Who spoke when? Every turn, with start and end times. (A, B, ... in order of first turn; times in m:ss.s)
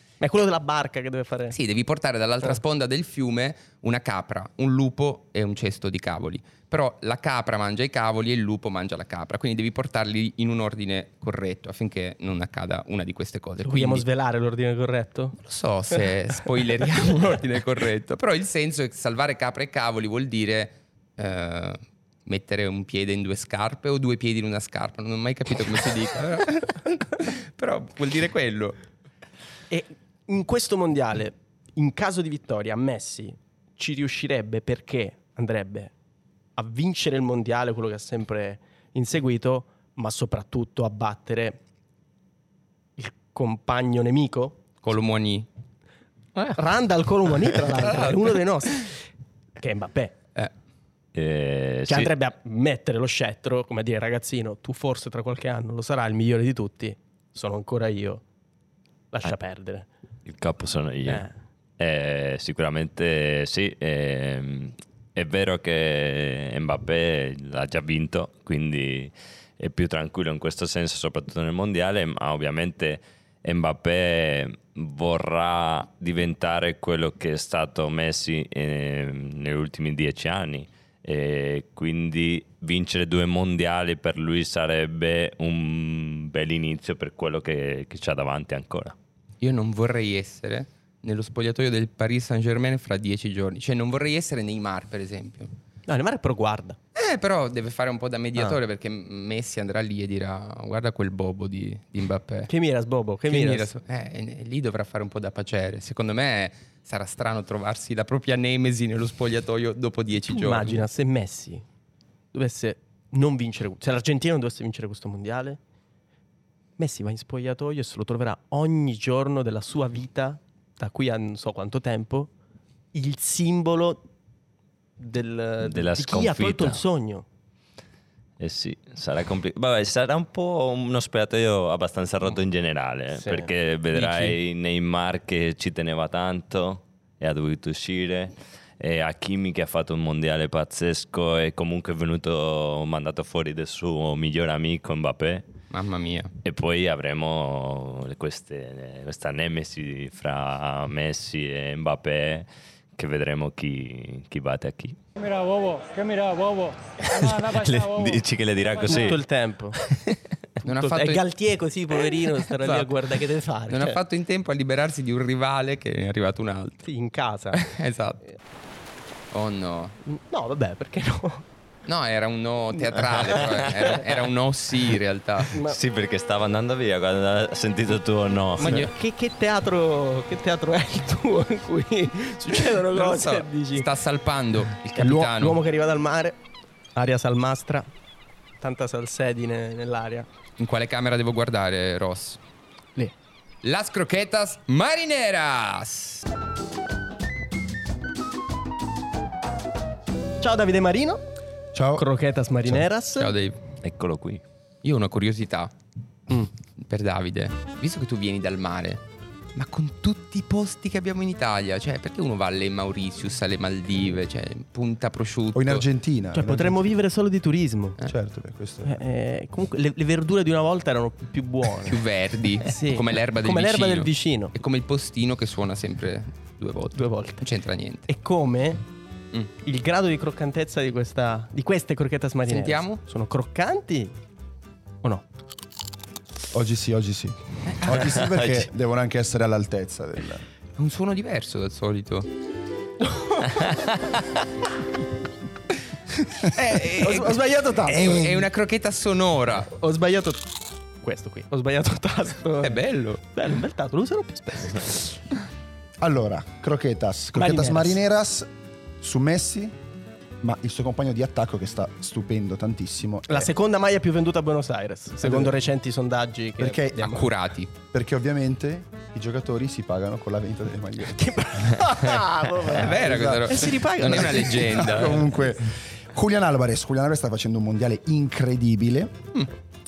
0:00.2-0:01.6 A
0:01.5-0:14.0 B
0:13.6-0:15.4 A
0:15.4-0:28.8 B
0:29.7-0:35.9 A
0:36.6-0:41.6 A
0:43.0-0:44.6 A
0:44.8-0:45.5 B
0:46.5-0:49.0 A
0:49.6-0:50.2 A
0:51.1-0:52.1 C
0:51.9-0:58.2 A
0:59.1-0:59.9 A
1:00.2-1:01.2 C
1:01.1-1:01.3 A
1:01.8-1:29.0 C
1:29.4-1:35.5 B
1:35.9-1:36.8 A
1:37.0-1:42.5 B
1:42.5-1:43.7 A
1:43.3-1:50.8 B
1:50.3-1:51.6 A
1:52.3-1:55.6 A
1:56.8-2:02.3 A
2:02.9-2:04.0 A
2:05.0-2:07.2 A
2:05.6-2:06.8 C
2:08.4-2:25.5 C
2:13.2-2:14.4 A
2:25.7-2:26.3 B
2:26.4-2:35.0 C
2:35.2-2:39.0 D
2:37.0-2:39.2 C
2:38.9-2:39.8 A
2:39.7-2:40.2 C
2:40.6-2:41.2 B
2:40.6-2:44.0 A
2:42.6-2:42.9 B
2:43.7-2:46.8 B
2:46.8-2:47.7 A
2:47.6-2:48.2 B
2:49.3-2:50.0 B
2:50.0-2:51.4 A
2:51.8-2:55.5 B
2:53.3-2:53.8 A
2:55.5-2:55.8 A
2:55.6-2:58.9 C
2:58.6-3:03.9 A
2:58.6-2:58.9 B
3:02.9-3:05.6 B
3:05.0-3:06.4 A
3:07.0-3:07.9 A
3:08.6-3:10.3 A
3:10.6-3:12.4 B
3:13.6-3:16.2 B
3:20.4-3:21.2 A
3:21.7-3:22.1 E
3:22.0-3:23.3 A
3:23.2-3:23.6 B
3:23.8-3:24.4 C
3:24.8-3:25.7 B
3:26.8-3:29.0 B
3:29.5-3:35.8 B
3:35.5-3:36.9 E
3:36.3-3:38.0 A
3:38.1-3:39.0 E
3:38.8-3:42.0 A
3:41.9-3:48.1 B
3:42.6-3:44.5 A
3:47.0-3:47.4 A
3:48.1-3:48.8 A
3:49.6-3:54.1 A
3:52.5-3:53.0 B
3:56.5-4:00.4 E
3:58.3-3:58.6 C
4:00.8-4:02.3 B
4:03.0-4:03.9 A
4:06.5-4:09.7 B
4:07.0-4:08.5 A
4:09.7-4:10.5 A
4:11.0-4:15.2 A
4:12.6-4:13.2 B
4:16.0-4:18.5 E
4:17.3-4:18.0 A
4:19.0-4:19.8 E
4:20.4-4:23.5 E
4:23.3-4:27.3 A
4:25.2-4:25.6 E
4:26.6-4:27.2 E
4:27.0-4:27.7 B
4:27.8-4:39.2 E
4:31.1-4:35.1 A
4:32.8-4:35.3 B